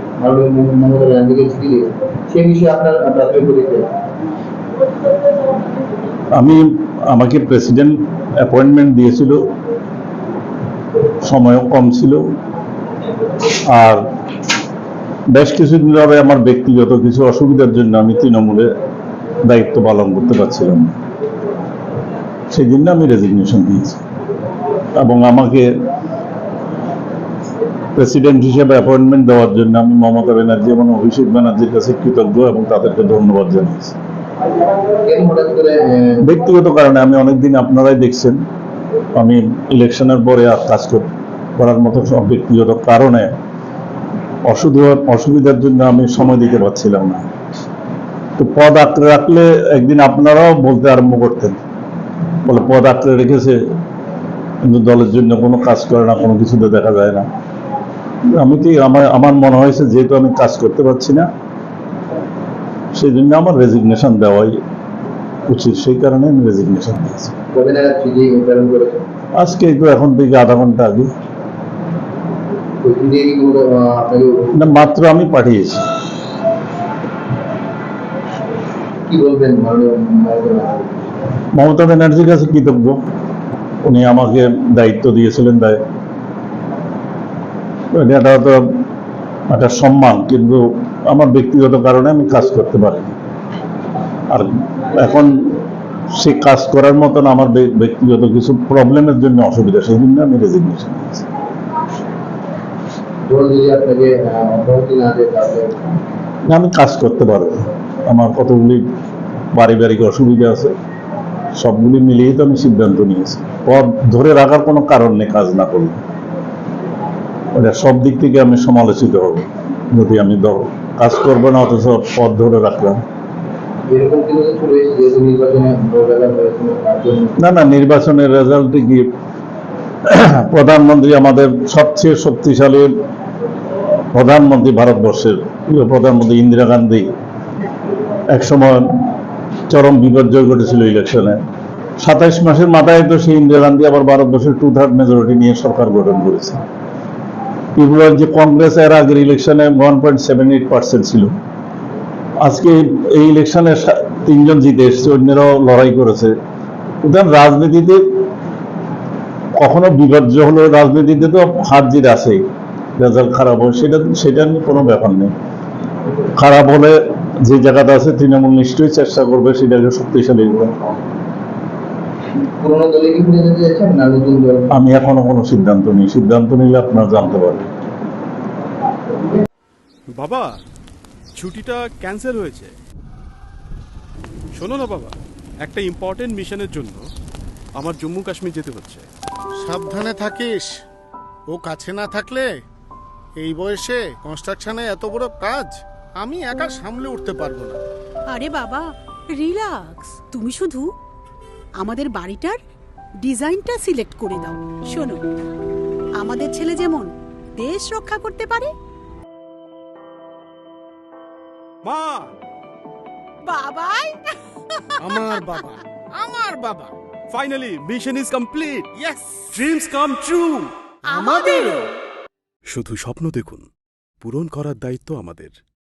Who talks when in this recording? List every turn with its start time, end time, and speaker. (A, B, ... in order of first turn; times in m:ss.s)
0:00.2-0:03.9 A
0:06.3-0:09.4 B
0:11.2-0:12.2 B
0:13.5-0:14.0 B
0:15.3-0:18.7 B
0:19.4-0:21.0 B
0:22.5-0:24.0 B
0:25.0-0:25.7 B
0:28.0-0:34.0 B
0:35.0-0:36.3 A
0:36.2-0:38.4 B
0:39.2-0:41.1 B
0:41.6-0:43.4 B
0:44.4-0:47.2 B
0:48.4-0:51.6 B
0:52.4-0:53.6 B
0:54.6-0:57.3 B
0:58.3-1:01.3 B
1:03.0-1:04.6 B
1:05.5-1:07.3 B
1:07.5-1:09.0 A
1:09.4-1:11.1 B
1:12.8-1:14.8 A
1:14.6-1:15.9 B
1:19.1-1:21.1 A
1:21.6-1:23.0 B
1:23.8-1:25.8 B
1:27.9-1:28.6 B
1:29.5-1:33.1 B
1:34.3-1:35.6 B
1:36.2-1:41.3 B
1:43.3-1:46.0 A
1:46.5-1:48.8 B
1:49.5-1:50.7 B
1:51.6-1:56.0 B
1:57.6-2:03.0 B
2:03.9-2:07.4 A
2:07.4-2:09.1 B
2:10.1-2:12.9 B
2:14.1-2:17.1 B
2:18.3-2:18.9 B
2:19.7-2:21.4 B
2:22.0-2:26.6 B
2:27.8-2:31.3 B
2:32.4-2:36.3 B
2:37.0-2:38.0 B
2:39.6-2:42.4 B
2:43.0-2:45.3 B
2:46.4-2:50.7 B
2:52.6-2:54.8 A
2:54.7-2:57.7 B
3:00.2-3:00.5 C
3:01.4-3:02.8 C
3:04.6-3:07.0 C
3:07.8-3:09.1 C
3:09.6-3:10.7 D
3:11.5-3:12.5 D
3:13.4-3:17.8 D
3:18.3-3:18.8 E
3:19.3-3:20.9 E
3:21.8-3:22.6 E
3:23.2-3:25.2 E
3:26.2-3:28.7 E
3:31.8-3:32.3 C
3:33.4-3:34.2 E
3:35.0-3:35.6 E
3:35.0-3:36.9 D
3:37.3-3:38.9 C
3:39.0-3:39.5 D
3:39.5-3:40.7 C
3:41.1-3:41.9 E
3:42.7-3:43.7 C
3:44.2-3:45.6 C